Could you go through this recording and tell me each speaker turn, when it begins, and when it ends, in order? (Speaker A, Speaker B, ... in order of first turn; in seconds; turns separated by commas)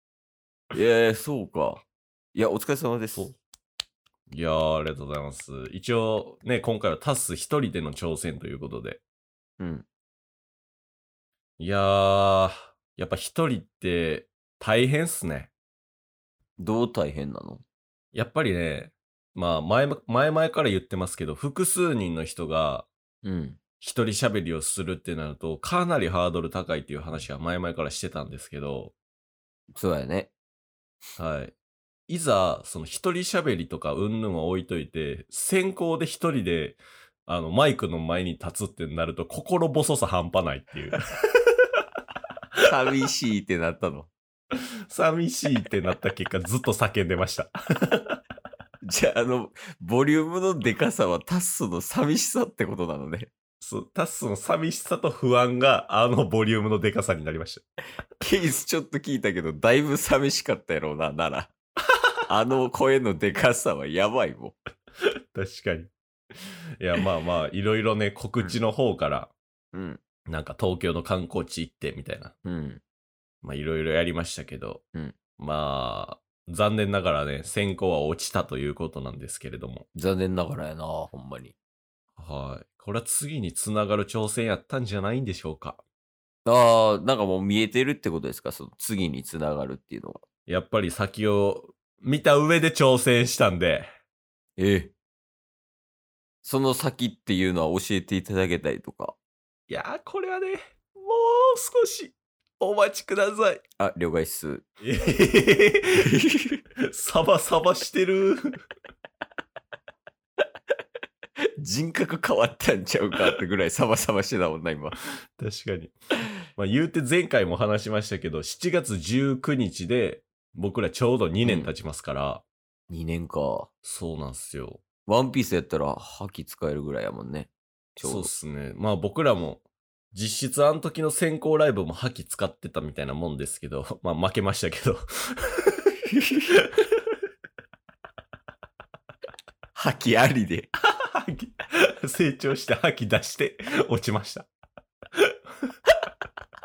Speaker A: 0.7-1.8, Speaker A: 2.3-3.3, Speaker B: 4.3-9.0, Speaker A: 9.6-9.8, Speaker B: 11.6-15.5, Speaker A: 16.6-17.6, Speaker B: 18.1-22.9, Speaker A: 23.2-23.6, Speaker B: 23.8-28.9, Speaker A: 29.7-30.3, Speaker B: 31.2-31.5, Speaker B: 32.1-41.5, Speaker A: 42.6-44.1, Speaker B: 44.9-48.2, Speaker A: 48.8-53.3, Speaker B: 53.6-57.6, Speaker A: 58.2-61.5, Speaker A: 62.3-64.6, Speaker B: 65.3-65.9, Speaker B: 66.8-69.3, Speaker A: 69.7-70.0, Speaker B: 70.3-72.3, Speaker A: 72.4-72.8, Speaker B: 73.4-74.8, Speaker B: 75.4-79.8, Speaker A: 79.9-81.5, Speaker B: 82.2-85.8, Speaker A: 86.5-90.2, Speaker B: 90.5-93.9, Speaker A: 94.6-94.9, Speaker A: 96.4-99.2, Speaker B: 99.7-103.6, Speaker A: 103.8-104.7, Speaker B: 104.8-106.1, Speaker A: 106.0-106.6, Speaker B: 106.9-108.7, Speaker A: 111.6-114.9, Speaker B: 115.4-115.9, Speaker B: 116.5-122.4, Speaker A: 121.4-121.7, Speaker A: 122.9-123.7, Speaker B: 123.8-124.8, Speaker A: 125.0-128.3, Speaker B: 128.0-135.9, Speaker A: 136.1-136.5, Speaker B: 136.5-137.0, Speaker A: 139.7-140.7, Speaker B: 141.0-144.5